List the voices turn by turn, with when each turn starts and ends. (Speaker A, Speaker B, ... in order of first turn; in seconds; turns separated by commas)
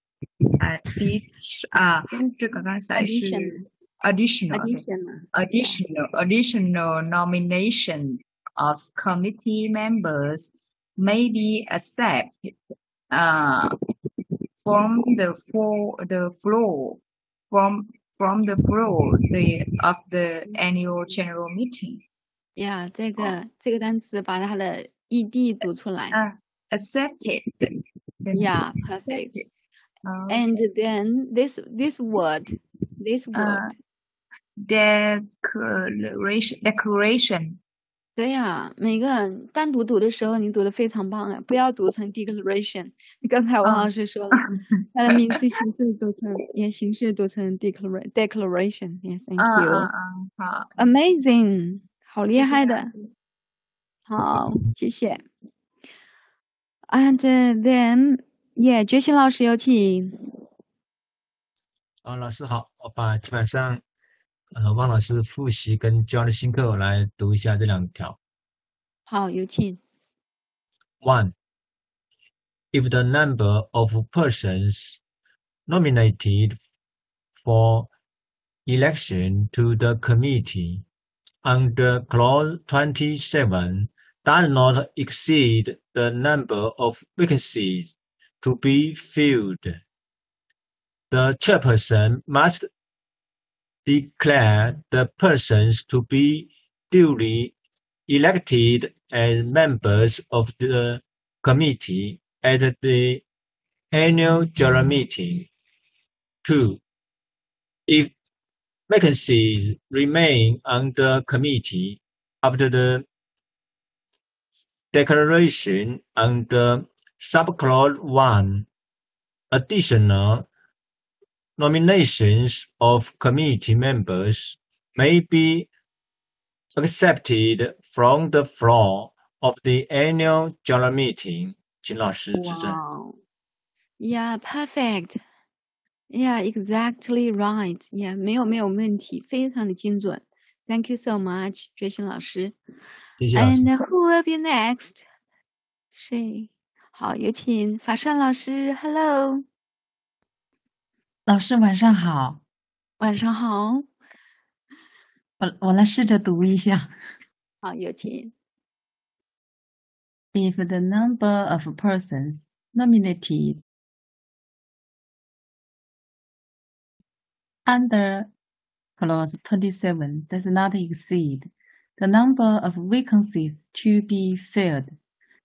Speaker A: 0.6-12.5, Speaker B: 2.9-3.6, Speaker B: 4.5-5.3, Speaker A: 13.1-13.7, Speaker A: 14.6-22.0, Speaker B: 22.6-26.2, Speaker A: 26.1-29.4, Speaker B: 28.3-29.4, Speaker A: 30.0-30.5, Speaker B: 30.3-33.7, Speaker A: 33.3-33.7, Speaker A: 34.6-37.6, Speaker B: 38.2-49.9, Speaker A: 43.6-45.2, Speaker A: 49.4-50.8, Speaker B: 50.8-52.9, Speaker A: 52.3-53.1, Speaker B: 54.1-55.2, Speaker B: 56.9-60.2, Speaker C: 62.0-63.8, Speaker C: 64.5-68.2, Speaker B: 69.1-69.8, Speaker C: 71.0-71.3, Speaker C: 72.7-75.0, Speaker C: 75.7-76.6, Speaker C: 77.4-77.9, Speaker C: 78.7-80.8, Speaker C: 81.4-89.8, Speaker C: 91.1-92.7, Speaker C: 93.8-97.5, Speaker C: 98.1-103.2, Speaker C: 103.9-105.5, Speaker C: 106.4-106.8, Speaker C: 107.9-108.1, Speaker C: 108.9-113.0, Speaker C: 114.9-118.7, Speaker C: 119.5-120.5, Speaker C: 121.6-125.7, Speaker C: 126.8-132.8, Speaker B: 132.3-133.2, Speaker B: 134.0-135.2, Speaker B: 136.1-142.6, Speaker C: 143.2-143.7, Speaker B: 143.3-145.0, Speaker B: 145.9-149.4, Speaker D: 151.2-152.4, Speaker B: 153.0-153.8, Speaker D: 155.4-156.9, Speaker B: 157.6-158.3, Speaker D: 160.3-163.6, Speaker D: 167.7-168.3, Speaker D: 169.0-175.0